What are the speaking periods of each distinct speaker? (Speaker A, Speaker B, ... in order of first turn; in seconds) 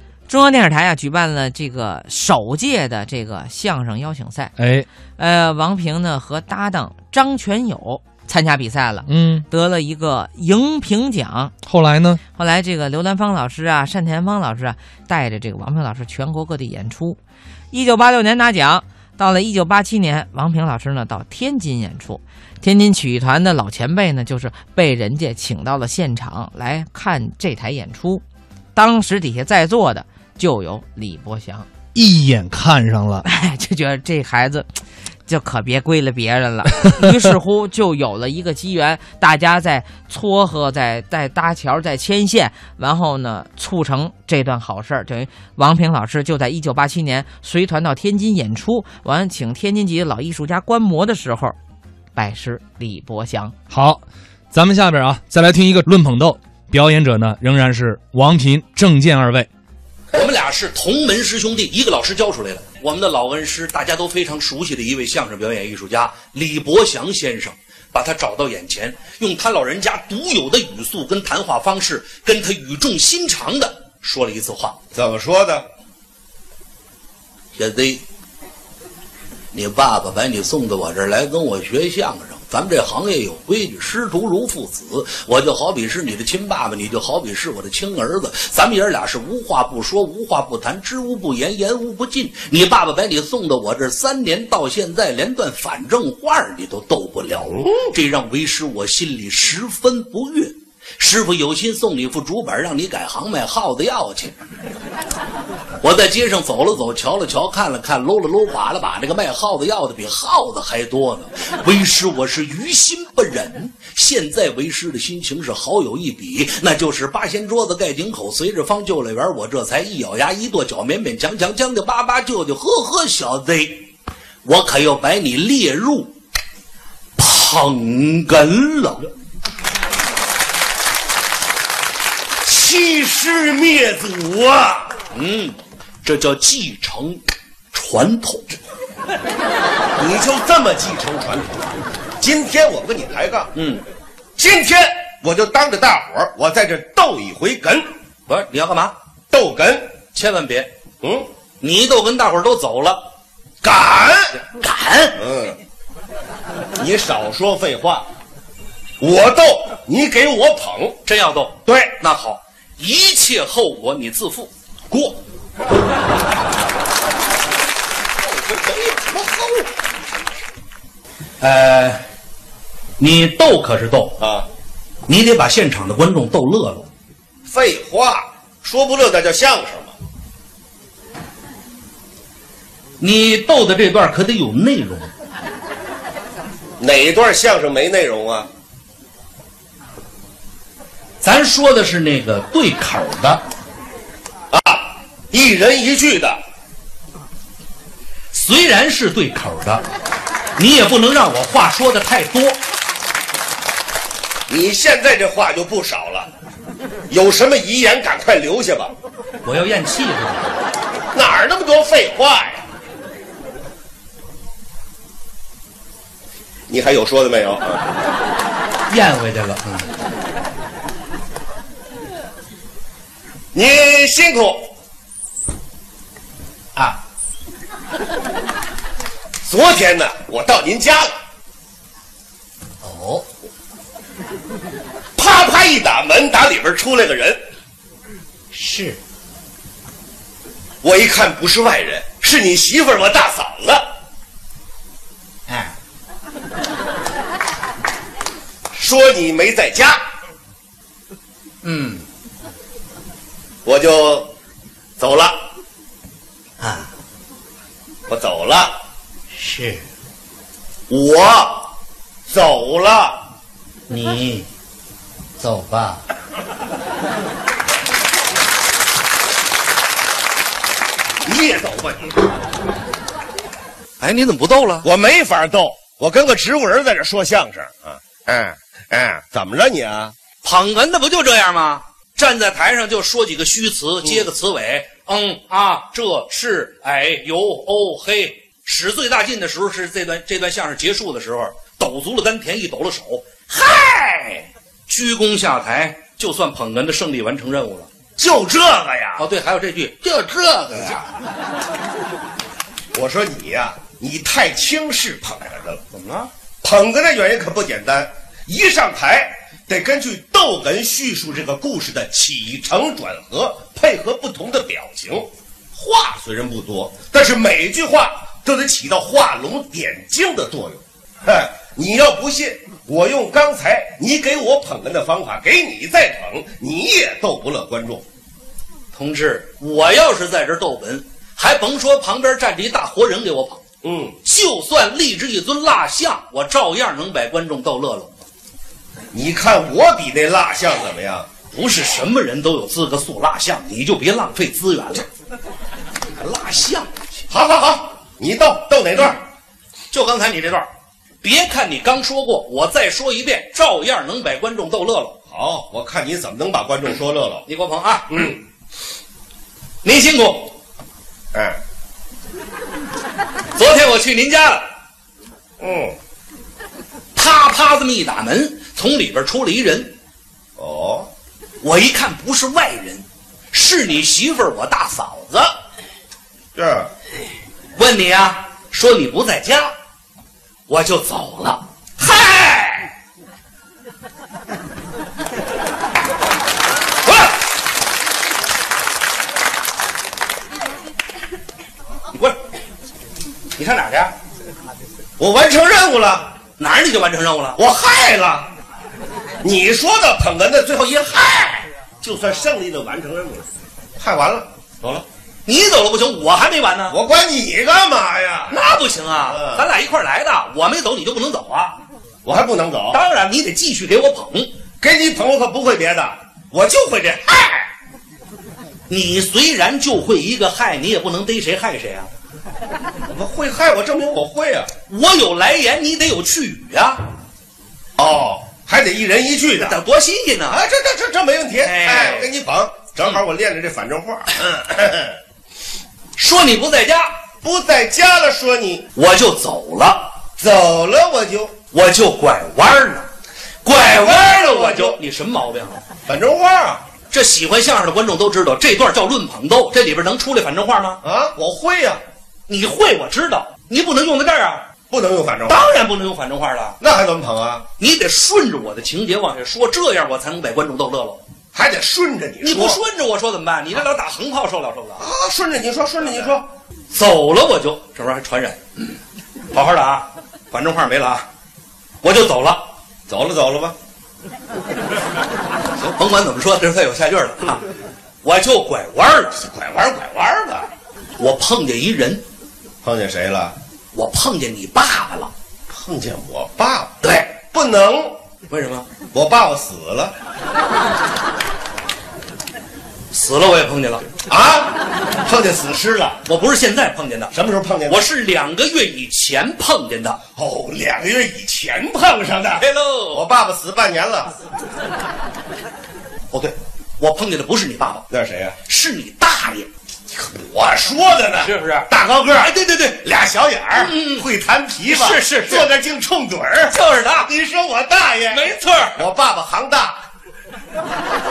Speaker A: 0.3-4.5, 5.2-11.5, 12.3-17.2, 17.7-28.2, 28.7-31.7, 33.2-34.7, 35.2-51.5, 52.1-53.5
Speaker B: 4.6-4.8, 9.1-9.4, 11.7-12.2, 31.9-33.2, 53.7-54.0, 54.5-59.5
Speaker C: 60.1-74.8, 77.5-78.0, 79.5-104.3, 105.8-123.9, 124.4-126.1, 127.2-129.1, 135.1-137.2, 137.7-138.6, 143.5-143.8, 148.3-148.9, 150.1-150.7, 151.6-153.0, 154.4-155.2, 161.1-164.5, 171.4-172.0, 173.0-174.2, 175.1-176.9, 183.0-185.1, 191.2-193.4, 198.3-199.8, 200.6-202.6, 209.4-210.6, 218.9-219.9, 232.8-233.2, 238.5-239.0, 245.5-245.7, 251.6-252.0, 256.6-256.9, 259.3-259.8, 263.9-264.5, 265.4-266.0, 274.0-274.9, 280.4-297.9, 299.2-301.1, 305.9-306.3, 328.9-333.6, 334.2-338.2, 341.5-345.1, 346.1-346.9, 349.9-350.7, 351.2-355.2, 357.5-358.4, 359.8-360.6, 363.5-364.7, 367.1-369.9, 371.6-375.5, 377.8-379.7, 380.7-382.9, 387.0-387.4, 393.5-394.1, 396.6-397.6, 405.4-407.0, 408.5-411.8, 412.9-414.5, 418.9-422.1, 424.9-427.1, 429.6-430.6, 431.6-432.3, 436.2-437.1, 438.9-440.1, 441.7-443.1, 443.6-445.8, 447.1-451.0, 452.5-454.6, 455.5-456.8, 457.8-461.2, 462.4-465.0, 466.9-469.0, 469.5-471.2, 472.0-472.7, 475.8-477.6, 478.2-479.4, 481.2-482.2, 483.9-485.3, 487.0-487.3, 488.5-488.9, 493.1-494.1, 496.2-497.3, 497.9-500.2, 502.6-503.2, 506.3-508.1, 508.6-509.7, 511.4-513.0, 513.7-514.3, 514.8-515.7, 516.7-517.3, 518.3-519.0
Speaker D: 74.9-75.7, 132.4-134.9, 140.0-141.7, 142.2-143.5, 144.4-147.9, 149.3-149.9, 151.0-151.3, 153.6-154.4, 155.2-155.6, 156.8-158.1, 159.0-160.9, 161.7-161.9, 164.9-165.2, 168.7-169.5, 174.2-174.5, 177.4-179.9, 186.8-188.5, 194.5-196.4, 204.5-206.3, 207.1-208.9, 211.1-212.6, 216.7-217.8, 223.5-224.7, 229.4-231.1, 235.2-237.4, 240.8-243.9, 248.7-250.0, 253.6-254.3, 255.0-255.5, 258.1-258.8, 260.9-261.7, 262.3-263.3, 271.2-272.2, 274.8-280.1, 298.2-299.2, 302.9-305.8, 306.6-328.0, 333.8-334.2, 339.1-341.3, 347.3-349.2, 355.3-357.4, 358.1-358.4, 361.3-361.6, 365.6-366.0, 370.6-371.1, 376.5-376.9, 395.2-396.4, 397.6-398.5, 399.4-403.5, 404.0-405.1, 406.9-408.6, 409.2-409.7, 412.2-413.0, 414.8-417.6, 423.1-424.7, 428.0-429.8, 430.5-435.2, 437.4-438.9, 440.4-441.6, 443.7-445.0, 446.1-446.8, 451.0-452.0, 454.9-455.6, 456.8-457.6, 461.5-462.8, 465.0-466.4, 473.1-473.8, 479.4-480.7, 482.8-483.6, 485.7-488.1, 489.1-490.1, 494.3-496.2, 497.3-498.0, 500.3-504.3, 508.1-508.6, 510.1-520.0